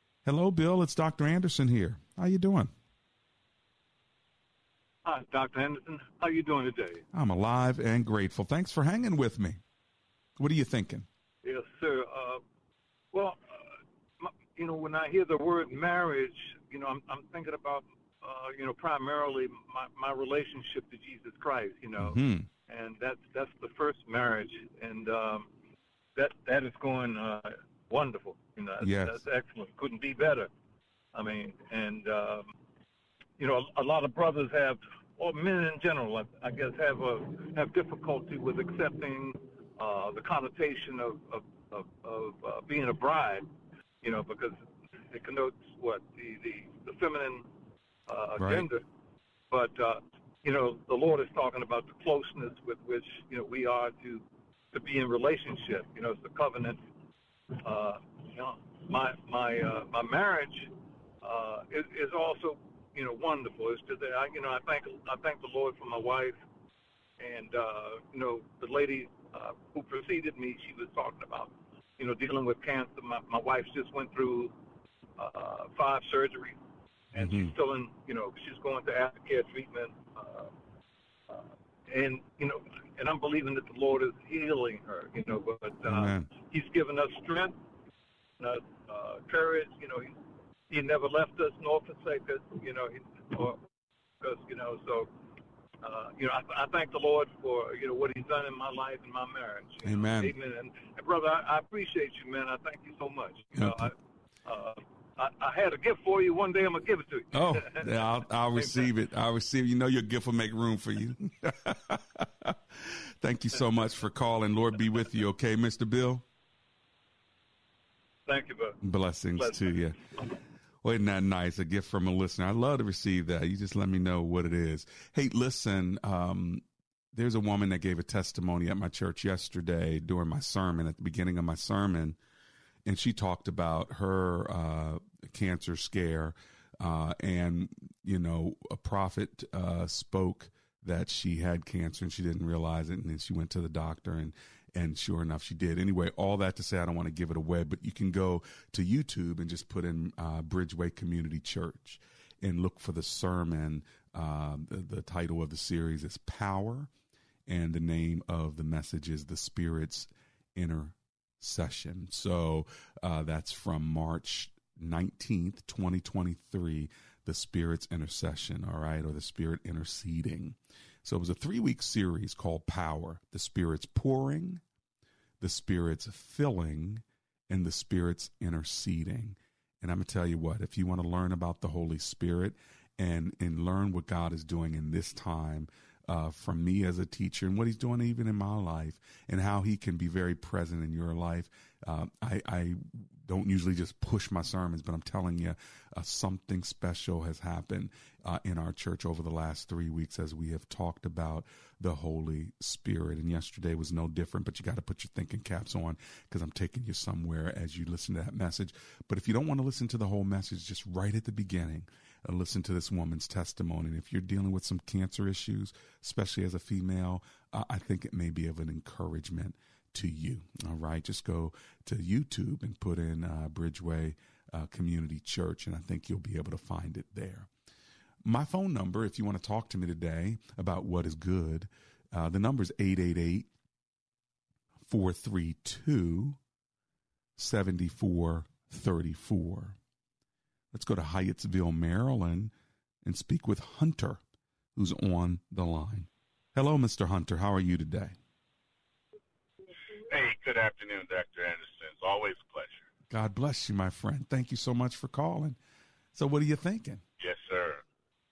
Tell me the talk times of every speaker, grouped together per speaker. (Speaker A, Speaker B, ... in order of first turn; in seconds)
Speaker A: 0.2-2.7, 7.1-9.6, 10.4-11.1, 22.0-22.5, 28.8-29.2, 48.4-48.7, 77.2-77.5, 85.9-86.3, 99.8-100.3, 103.5-103.9, 107.3-112.5, 113.2-116.2, 118.8-120.0, 120.8-126.6, 127.1-132.2, 132.8-156.9, 157.5-174.6, 175.4-227.5, 228.2-233.5, 234.9-236.4, 237.4-239.8, 240.7-242.5, 243.0-244.2, 244.8-248.2, 253.1-255.6, 256.1-257.0
Speaker B: 5.0-7.0, 11.4-12.4, 13.1-25.5, 26.1-30.5, 31.1-32.5, 33.4-43.5, 44.0-47.5, 48.1-48.8, 49.5-56.8, 57.5-60.7, 61.2-66.4, 67.2-74.5, 75.2-76.6, 77.1-80.5, 81.3-87.5, 88.4-90.1, 90.7-93.6, 94.2-95.1, 95.8-103.9, 104.5-108.0, 108.5-108.9, 118.2-118.8, 119.4-119.8
Speaker C: 250.1-252.9, 257.2-257.8